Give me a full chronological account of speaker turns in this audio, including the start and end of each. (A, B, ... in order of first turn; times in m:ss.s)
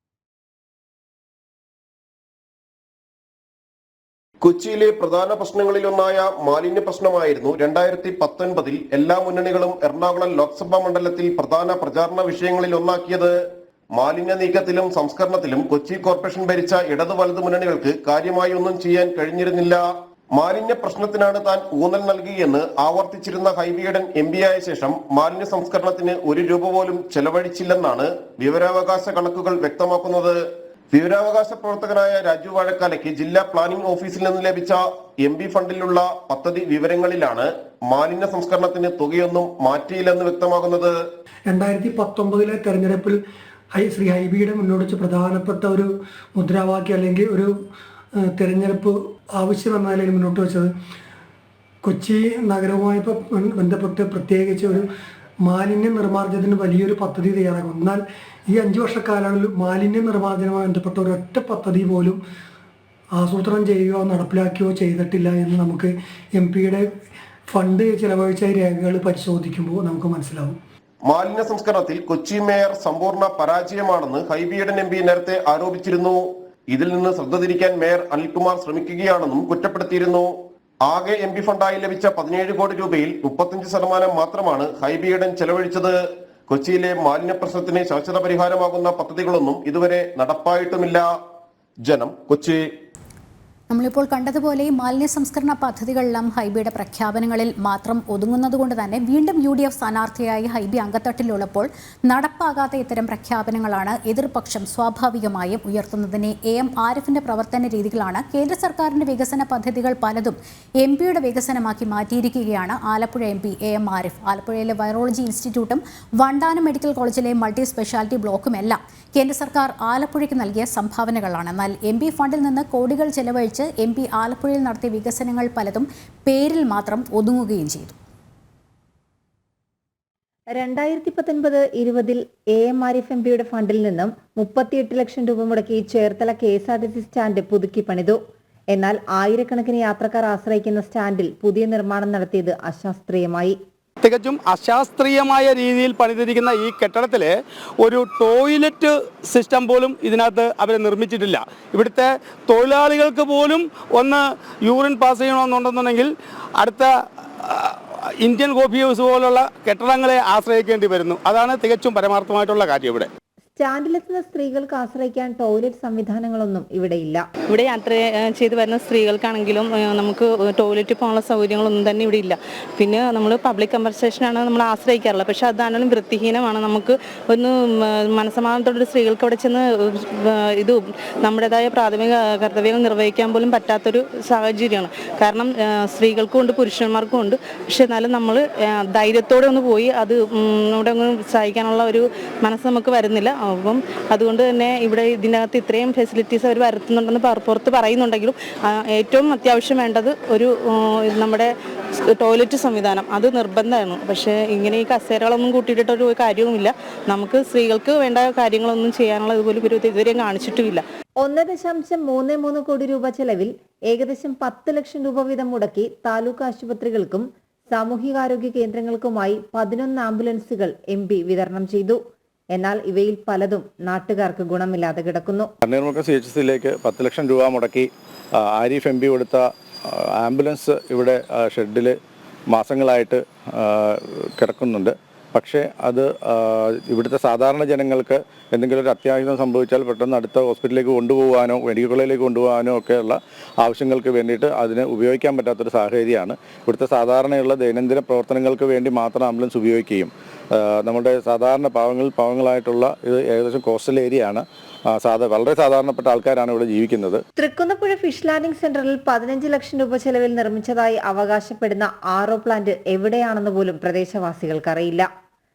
0:04.4-0:13.4 A
0:14.0-0:19.8 A
0:20.4-0:30.4 A
0:30.9-0:40.9 A
0:41.5-0:43.2 B
0:43.7-0:47.6 B
0:48.2-0:50.7 B
0:51.8-0:54.9 B
0:55.4-1:02.2 B
1:03.2-1:06.9 B
1:07.5-1:10.6 B
1:11.1-1:20.3 A
1:20.8-1:25.9 A
1:26.5-1:31.0 A
1:31.8-1:32.6 A
1:33.7-2:07.9 C
2:10.5-2:18.2 D
2:18.7-2:23.6 D
2:24.0-2:43.1 E
2:43.6-2:47.2 D
2:47.5-3:30.8 F
3:31.2-3:42.0 D
3:42.6-3:45.5 D
3:45.6-3:47.9 G
3:48.5-3:52.0 G
3:52.5-4:14.4 G
4:15.0-4:17.2 G
4:17.4-4:25.1 D